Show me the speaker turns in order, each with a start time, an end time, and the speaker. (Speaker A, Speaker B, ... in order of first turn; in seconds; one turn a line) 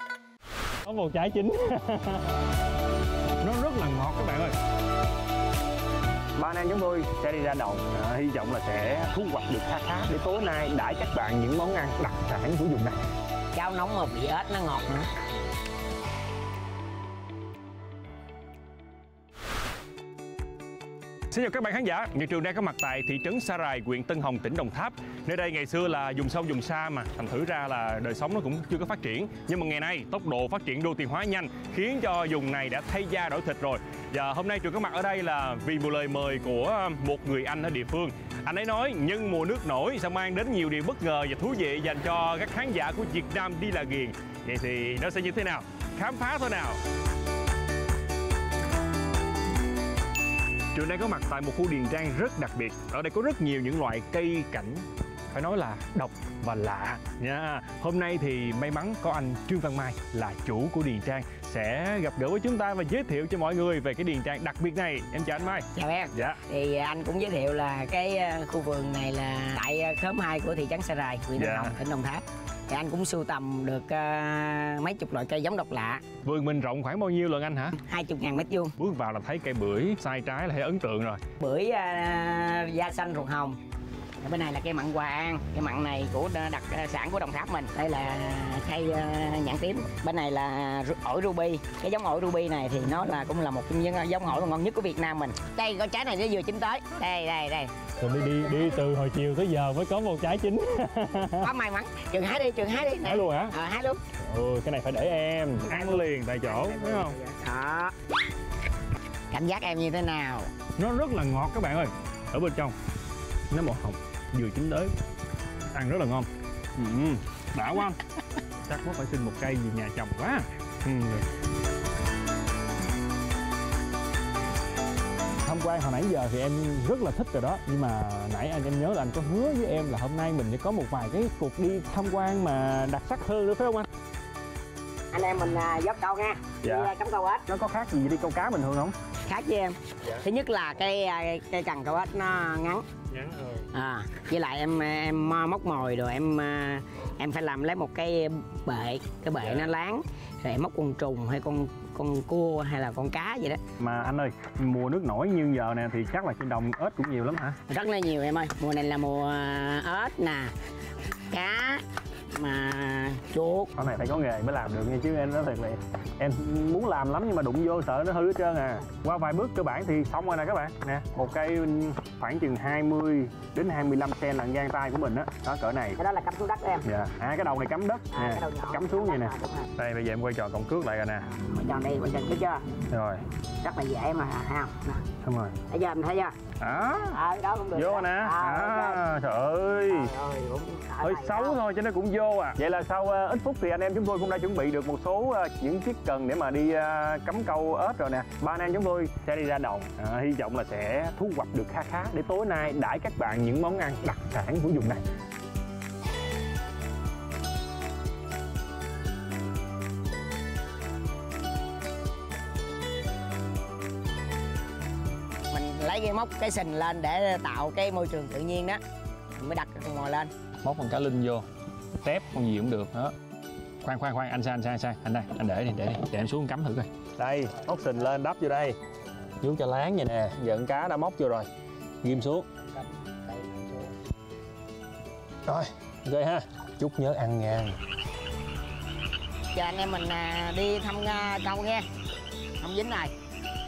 Speaker A: 0.8-2.3
Speaker A: 3.4-4.5
Speaker A: 6.4-13.0
Speaker B: 13.5-15.1
Speaker A: 21.3-46.8
Speaker A: 50.7-66.4
Speaker B: 65.7-76.0
Speaker A: 71.4-71.8
Speaker A: 76.2-77.8
Speaker B: 77.8-78.7
Speaker A: 78.8-81.2
Speaker B: 81.4-83.6
Speaker B: 84.2-97.7
Speaker A: 98.0-101.5
Speaker B: 101.4-104.0
Speaker A: 103.0-103.5
Speaker A: 104.2-107.1
Speaker B: 105.6-108.0
Speaker B: 109.3-110.5
Speaker A: 110.8-112.7
Speaker A: 113.5-114.9
Speaker A: 115.7-118.0
Speaker A: 118.6-121.2
Speaker A: 125.4-133.9
Speaker B: 135.1-137.4
Speaker A: 136.6-136.9
Speaker A: 137.5-138.9
Speaker B: 139.2-142.9
Speaker A: 143.1-143.7
Speaker B: 143.7-153.6
Speaker A: 153.8-157.6
Speaker B: 157.7-160.5
Speaker B: 161.3-163.7
Speaker A: 163.8-176.0
Speaker B: 176.0-176.8
Speaker A: 176.8-181.3
Speaker B: 178.1-179.7
Speaker B: 181.3-182.7
Speaker A: 182.9-183.2
Speaker B: 183.6-185.1
Speaker A: 185.2-185.5
Speaker B: 185.7-186.3
Speaker A: 186.6-187.2
Speaker B: 187.1-189.0
Speaker A: 187.7-190.1
Speaker B: 189.9-191.6
Speaker A: 191.0-205.0
Speaker B: 215.5-218.8
Speaker B: 219.3-220.3
Speaker A: 220.6-221.4
Speaker A: 222.0-223.1
Speaker A: 223.8-228.8
Speaker A: 229.4-231.5
Speaker A: 232.0-232.4
Speaker A: 235.4-237.8
Speaker B: 239.5-241.8
Speaker B: 242.6-243.1